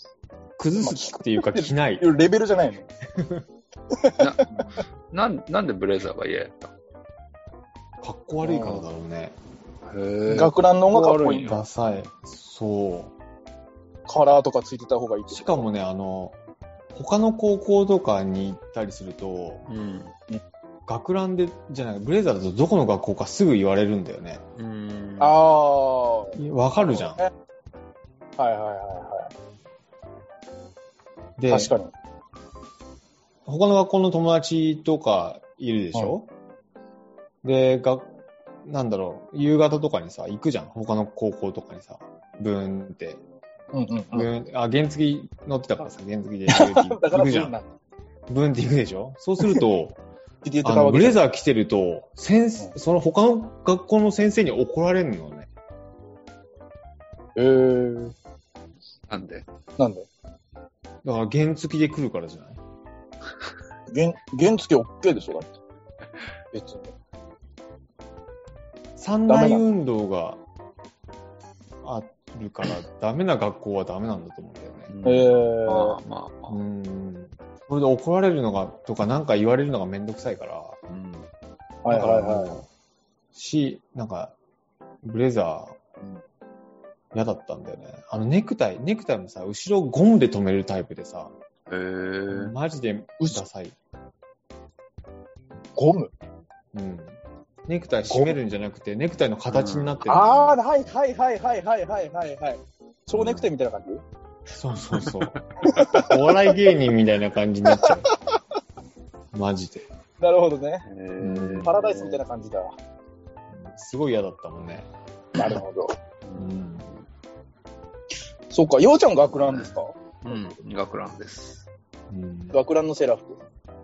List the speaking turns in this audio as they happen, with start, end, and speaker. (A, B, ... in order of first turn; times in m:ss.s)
0:00.6-0:02.1 A
0:00.8-0:02.9 B
0:03.1-0:03.4 A
0:03.9-0:04.2 B
0:04.2-0:06.7 C
0:08.0-0:09.3 A
0:08.4-0:08.8 B
0:09.8-0:11.6 C
0:10.3-0:11.5 B
0:11.4-0:13.1 A
0:14.1-0:15.6 B
0:15.3-0:16.4 A
0:16.9-0:19.6 A
0:19.7-0:20.1 C
0:20.9-0:24.4 A
0:24.6-0:25.4 C
0:25.2-0:26.4 B
0:26.4-0:27.2 A
0:26.9-0:27.3 B
0:28.4-0:29.3 B
0:31.4-0:31.7 A
0:31.5-0:31.9 B
0:33.4-0:36.3 A
0:37.4-0:38.1 A
0:38.6-0:43.2 A
0:43.7-0:44.3 B
0:44.1-0:47.5 A
0:46.5-0:47.7 B
0:48.3-0:50.0 A
0:50.4-0:51.2 B
0:50.6-0:55.5 A
0:57.4-0:58.1 B
0:59.1-0:59.4 C
0:59.8-1:00.1 B
1:01.0-1:02.6 A
1:03.9-1:05.5 B
1:06.5-1:06.9 B
1:09.0-1:10.4 A
1:09.3-1:09.6 B
1:11.8-1:14.9 A
1:14.9-1:16.6 C
1:15.0-1:16.0 B
1:16.5-1:20.8 A
1:20.9-1:21.3 C
1:21.8-1:22.5 B
1:21.9-1:22.7 A
1:23.3-1:24.3 A
1:25.0-1:25.8 A
1:27.1-1:31.3 A
1:31.7-1:32.5 C
1:32.3-1:33.8 A
1:35.8-1:36.1 B
1:36.7-1:40.6 A
1:38.1-1:38.4 B
1:39.5-1:40.0 C
1:40.1-1:44.0 B
1:43.2-1:43.4 A
1:44.5-1:45.4 A
1:45.1-1:45.4 C
1:45.7-1:46.1 B
1:45.9-1:48.1 A
1:49.3-1:49.9 A
1:50.2-1:50.8 B
1:50.8-1:52.2 C
1:51.2-1:51.7 A
1:51.6-1:52.8 B
1:53.5-1:54.9 A
1:55.4-1:55.9 B
1:56.2-1:57.0 C
1:56.4-1:56.9 A
1:58.5-2:00.0 B
2:00.2-2:01.6 C
2:02.1-2:02.5 A
2:02.5-2:03.4 B